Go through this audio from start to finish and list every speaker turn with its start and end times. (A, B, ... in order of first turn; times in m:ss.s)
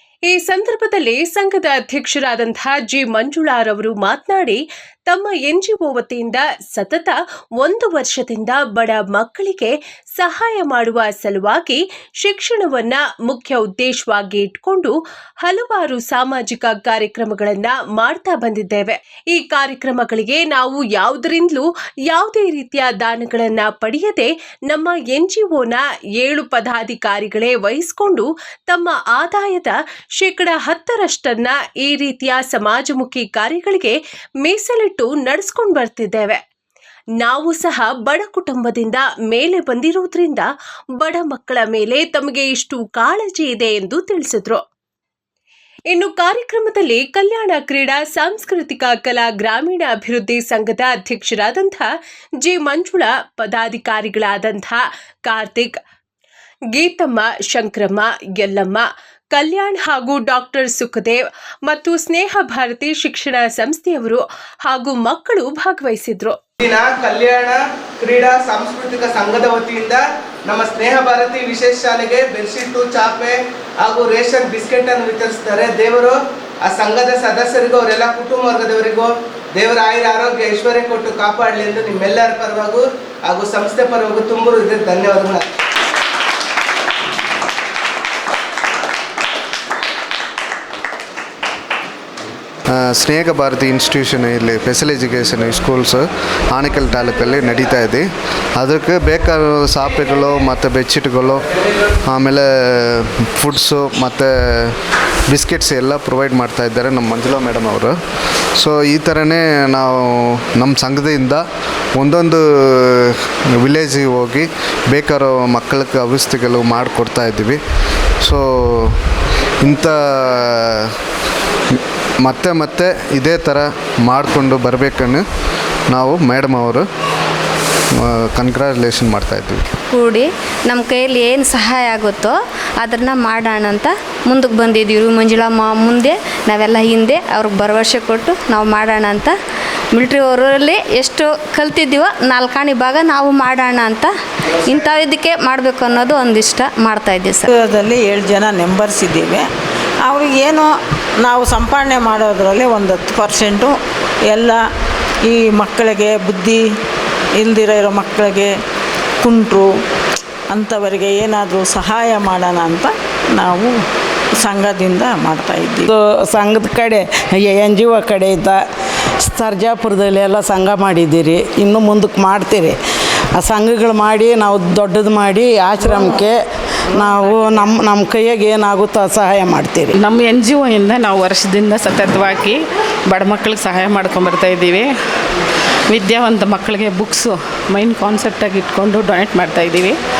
0:00.3-0:36.4 A
0:37.2-0:44.6 A
0:45.9-0:51.9 A
0:52.4-0:55.8 A
0:56.7-1:06.4 A
1:06.6-1:25.5 B
1:32.7-1:41.4 C
1:42.0-1:48.0 C
1:48.6-1:51.4 C
1:52.0-1:57.6 C
1:58.2-1:59.0 C
1:59.6-2:01.0 C
2:01.7-2:05.2 C
2:05.9-2:06.8 C
2:07.9-2:09.7 C
2:09.8-2:19.4 D
2:19.9-2:24.1 D
2:24.6-2:27.5 D
2:27.5-2:29.4 E
2:30.0-2:30.7 E
2:31.2-2:33.8 E
2:34.3-2:34.6 E
2:35.3-2:36.6 E
2:37.4-2:38.5 E
2:39.2-2:39.7 E
2:40.5-2:43.7 E
2:44.4-2:45.9 E
2:45.9-2:48.6 F
2:49.2-2:52.8 F
2:53.4-2:56.4 F
2:55.8-2:56.1 E
2:56.9-3:00.0 F
3:00.0-3:04.9 G
3:05.9-3:10.0 G